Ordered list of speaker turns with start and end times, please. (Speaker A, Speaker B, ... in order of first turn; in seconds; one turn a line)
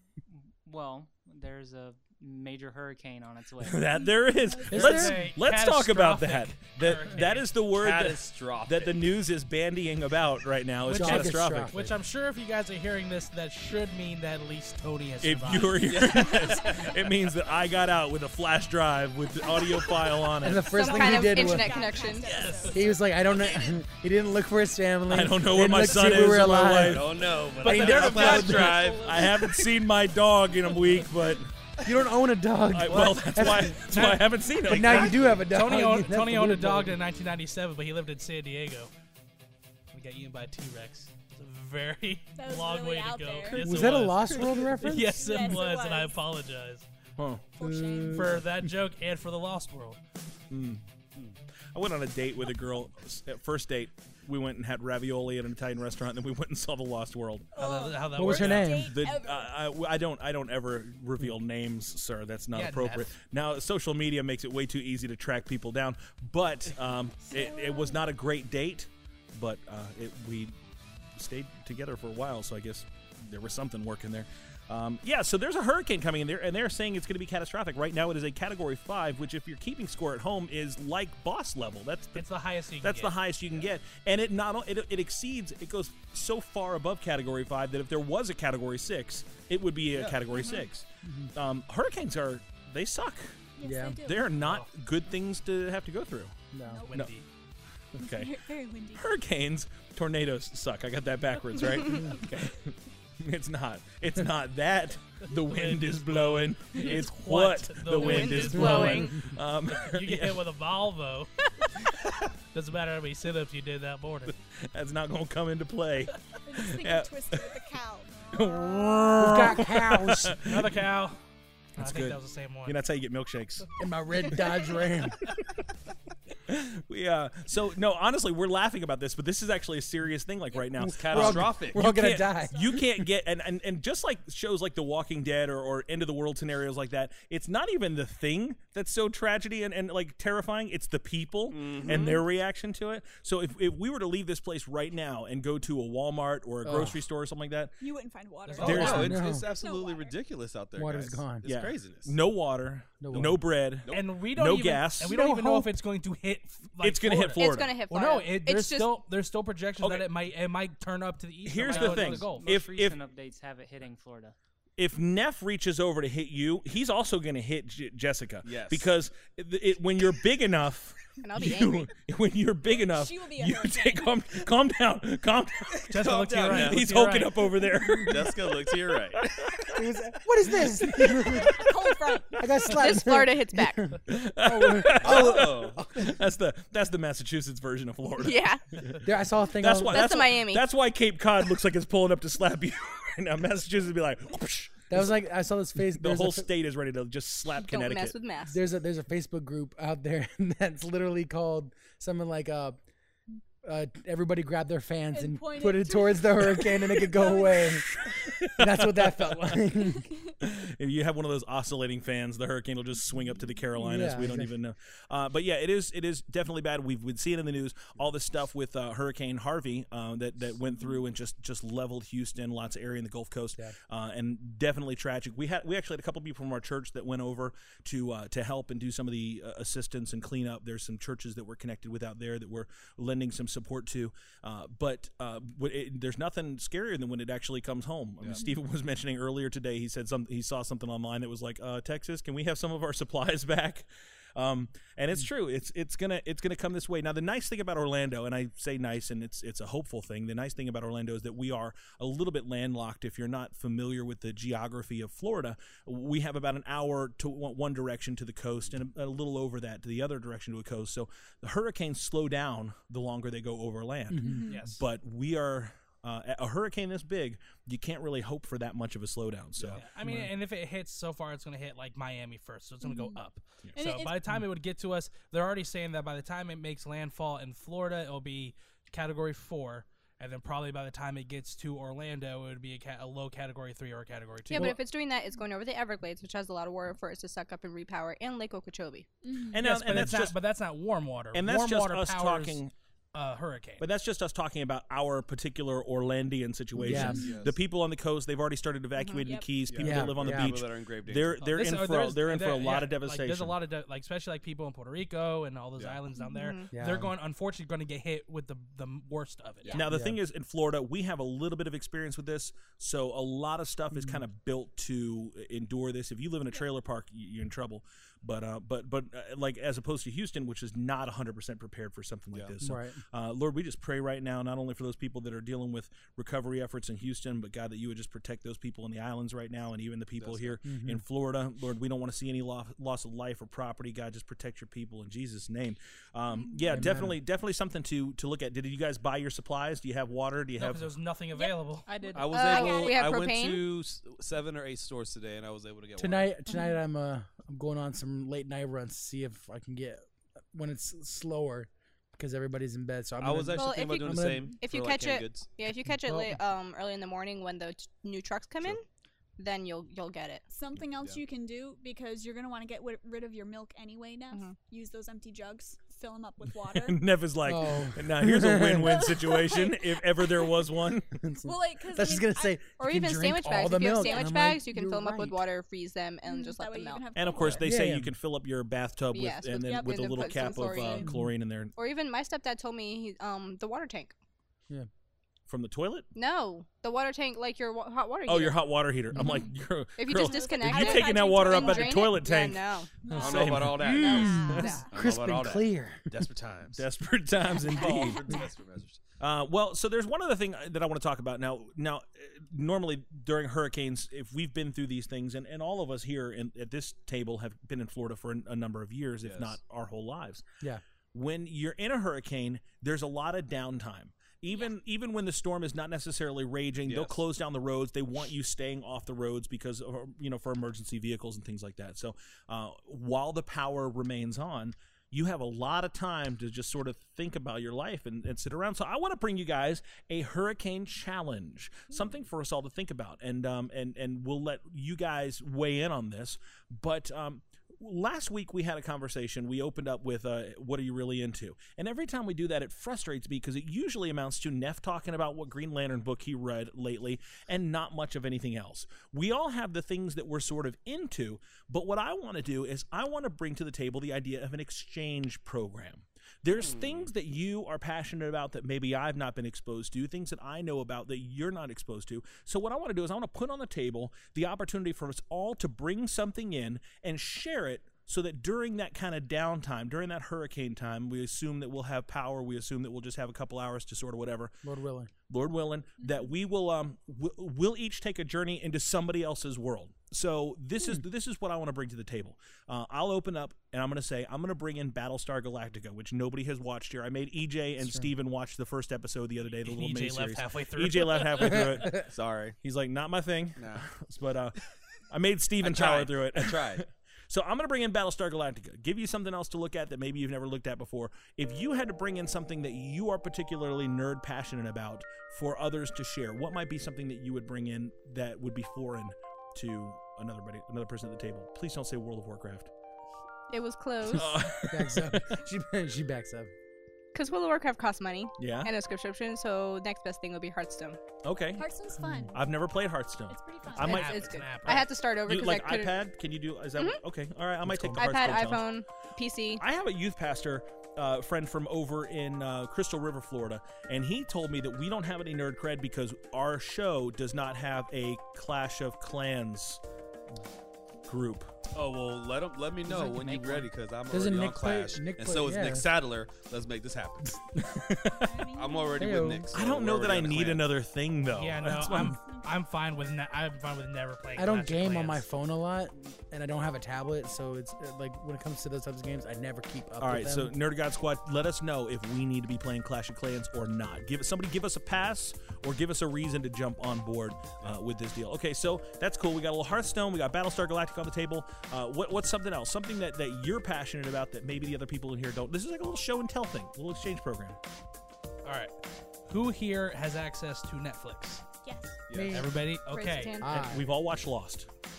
Speaker A: 0.3-3.9
Speaker B: 3.6-11.7
Speaker C: 4.1-4.8
Speaker D: 4.7-5.3
Speaker E: 4.7-7.6
Speaker F: 7.7-9.1
Speaker E: 10.9-16.1
Speaker D: 10.9-12.0
Speaker B: 15.2-20.8
Speaker F: 15.9-16.7
Speaker C: 16.1-16.9
Speaker C: 19.4-20.1
Speaker D: 20.4-21.9
Speaker G: 20.6-22.5
Speaker C: 20.8-23.0
Speaker E: 22.2-22.8
Speaker D: 22.7-28.8
Speaker B: 25.1-27.3
Speaker F: 26.8-29.6
Speaker E: 27.5-29.7
Speaker B: 27.9-31.5
Speaker F: 31.8-32.1
Speaker D: 31.8-33.9
Speaker B: 32.7-35.3
Speaker F: 32.9-33.2
Speaker E: 33.8-38.9
Speaker D: 34.6-37.0
Speaker F: 35.1-35.4
Speaker E: 39.9-46.9
Speaker C: 42.4-43.7
Speaker D: 43.5-45.5
Speaker C: 45.0-46.1
Speaker B: 47.2-47.5
Speaker C: 47.6-48.4
Speaker D: 47.6-48.5
Speaker E: 48.1-50.0
Speaker B: 50.5-50.8
Speaker B: 51.7-57.5
Speaker C: 57.5-59.5
Speaker E: 57.6-58.7
Speaker D: 58.2-59.0
Speaker B: 58.3-70.5
Speaker E: 62.5-63.0
Speaker C: 67.3-68.0
Speaker B: 71.2-82.3
Speaker E: 82.2-83.2
Speaker B: 82.8-93.4
Speaker F: 89.9-90.4
Speaker C: 90.4-90.6
Speaker D: 91.0-91.3
Speaker C: 93.6-94.5
Speaker D: 93.6-94.0
Speaker B: 94.0-96.4
Speaker E: 94.4-94.7
Speaker D: 96.5-96.8
Speaker C: 96.6-97.0
Speaker E: 96.9-97.3
Speaker B: 97.9-98.3
Speaker C: 98.0-99.2
Speaker B: 99.0-110.4
Speaker E: 105.3-109.1
Speaker G: 108.0-109.3
Speaker E: 109.7-111.4
Speaker E: 112.5-114.3
Speaker B: 114.5-117.5
Speaker C: 116.5-118.6
Speaker B: 118.3-120.6
Speaker D: 119.2-120.4
Speaker E: 120.4-121.2
Speaker E: 121.8-122.8
Speaker B: 121.8-123.7
Speaker D: 123.8-125.3
Speaker C: 124.3-124.9
Speaker B: 126.5-147.7
Speaker D: 130.8-133.0
Speaker F: 130.8-131.9
Speaker C: 132.1-132.8
Speaker F: 141.5-142.2
Speaker D: 146.6-147.0
Speaker C: 147.8-150.2
Speaker F: 148.5-152.2
Speaker B: 148.6-149.2
Speaker D: 148.6-149.5
Speaker D: 150.8-151.4
Speaker B: 151.4-155.1
Speaker D: 153.0-153.4
Speaker E: 153.9-162.5
Speaker D: 155.0-155.7
Speaker B: 156.8-157.7
Speaker G: 157.3-158.9
Speaker B: 159.8-160.1
Speaker B: 161.4-163.0
Speaker A: 161.6-164.4
Speaker B: 164.8-178.4
Speaker F: 168.4-168.9
Speaker G: 171.2-171.9
Speaker C: 172.7-174.5
Speaker E: 175.9-177.5
Speaker F: 175.9-176.8
Speaker F: 178.0-179.3
Speaker B: 179.1-179.8
Speaker D: 179.7-181.7
Speaker B: 180.8-181.8
Speaker C: 181.4-182.5
Speaker D: 182.4-186.1
Speaker G: 182.7-183.9
Speaker B: 184.1-189.0
Speaker F: 185.0-185.9
Speaker G: 188.2-188.6
Speaker D: 189.0-190.2
Speaker B: 189.6-195.1
Speaker G: 189.9-190.7
Speaker D: 194.9-196.5
Speaker B: 195.9-198.2
Speaker G: 197.7-198.6
Speaker D: 198.5-202.8
Speaker D: 203.6-207.8
Speaker C: 205.1-207.8
Speaker B: 208.1-208.8
Speaker D: 208.6-210.1
Speaker C: 209.8-210.3
Speaker B: 210.4-269.8
Speaker D: 213.8-214.5
Speaker D: 264.1-264.5
Speaker C: 264.2-264.6
Speaker E: 264.5-264.8
Speaker F: 269.6-269.8
Speaker E: 269.8-284.8
Speaker D: 270.0-270.3
Speaker C: 272.8-273.2
Speaker C: 273.8-274.1
Speaker G: 284.5-289.1
Speaker C: 289.2-289.6
Speaker B: 289.5-290.4
Speaker E: 289.6-292.6
Speaker B: 291.3-292.7
Speaker E: 293.1-293.9
Speaker B: 293.8-303.6
Speaker D: 296.8-297.3
Speaker C: 296.9-297.3
Speaker F: 297.1-297.6
Speaker G: 299.0-299.4
Speaker C: 299.2-299.5
Speaker F: 299.7-301.5
Speaker D: 299.8-300.6
Speaker E: 301.5-309.8
Speaker G: 306.3-306.7
Speaker D: 306.7-307.1
Speaker B: 309.7-340.9
Speaker D: 309.9-310.2
Speaker D: 313.9-314.2
Speaker D: 322.6-323.0
Speaker F: 330.2-330.6
Speaker D: 330.6-331.0
Speaker C: 336.5-336.8
Speaker D: 336.7-337.1
Speaker E: 340.6-341.9
Speaker A: 341.9-342.2
Speaker G: 341.9-343.7
Speaker F: 342.1-346.4
Speaker C: 342.3-343.0
Speaker D: 346.0-354.5
Speaker C: 346.5-346.8
Speaker F: 353.2-355.6
Speaker G: 353.5-358.9
Speaker D: 356.0-356.4
Speaker G: 359.4-360.4
Speaker C: 360.5-367.0
Speaker G: 364.3-364.6
Speaker B: 366.6-371.2
Speaker D: 367.4-369.1
Speaker C: 368.9-370.5
Speaker D: 371.1-375.4
Speaker C: 371.4-372.7
Speaker G: 372.8-377.1
Speaker C: 373.9-374.4
Speaker C: 376.2-377.6
Speaker B: 377.1-381.8
Speaker D: 377.6-378.1
Speaker G: 379.1-381.1
Speaker C: 379.7-381.0
Speaker D: 381.0-381.3
Speaker G: 381.8-384.1
Speaker B: 385.5-386.1
Speaker G: 386.1-389.4
Speaker B: 388.3-393.9
Speaker C: 389.2-389.5
Speaker G: 390.0-392.9
Speaker C: 390.1-392.3
Speaker C: 393.0-394.9
Speaker D: 393.1-396.3
Speaker F: 393.1-396.8
Speaker G: 393.9-394.9
Speaker B: 396.8-398.2
Speaker F: 397.6-399.0
Speaker B: 399.2-410.4
Speaker F: 409.2-409.6
Speaker B: 411.1-474.6
Speaker F: 416.9-417.2
Speaker F: 456.5-457.1
Speaker D: 474.6-475.1
Speaker B: 475.3-512.7
Speaker C: 476.0-476.3
Speaker D: 487.8-488.1
Speaker E: 489.6-491.6
Speaker D: 491.4-492.0
Speaker F: 491.5-492.6
Speaker F: 493.6-493.9
Speaker F: 495.6-496.9
Speaker G: 513.5-514.4
Speaker B: 514.1-515.3
Speaker D: 514.5-516.5
Speaker G: 517.1-521.0
Speaker B: 518.4-518.7
Speaker B: 521.2-521.7
Speaker C: 521.5-522.4
Speaker D: 522.0-522.3
Speaker B: 522.3-524.1
Speaker C: 523.3-524.3
Speaker E: 523.7-524.9
Speaker G: 523.8-526.0
Speaker B: 525.2-528.7
Speaker G: 526.8-527.0
Speaker G: 527.7-529.6
Speaker B: 529.6-539.8
Speaker B: 541.0-541.5
Speaker F: 541.7-547.4
Speaker A: 543.0-543.6
Speaker D: 544.1-545.9
Speaker B: 547.6-548.3
Speaker D: 547.7-547.9
Speaker C: 548.1-549.0
Speaker F: 548.5-550.7
Speaker D: 549.0-549.5
Speaker B: 549.5-552.2
Speaker E: 551.3-555.3
Speaker D: 554.4-560.5
Speaker B: 560.0-577.6
Speaker E: 578.4-578.7
Speaker E: 579.3-581.4
Speaker C: 581.6-582.0
Speaker F: 582.1-582.5
Speaker D: 582.1-582.6
Speaker E: 582.3-583.4
Speaker G: 582.9-583.5
Speaker D: 583.4-583.9
Speaker B: 583.5-584.7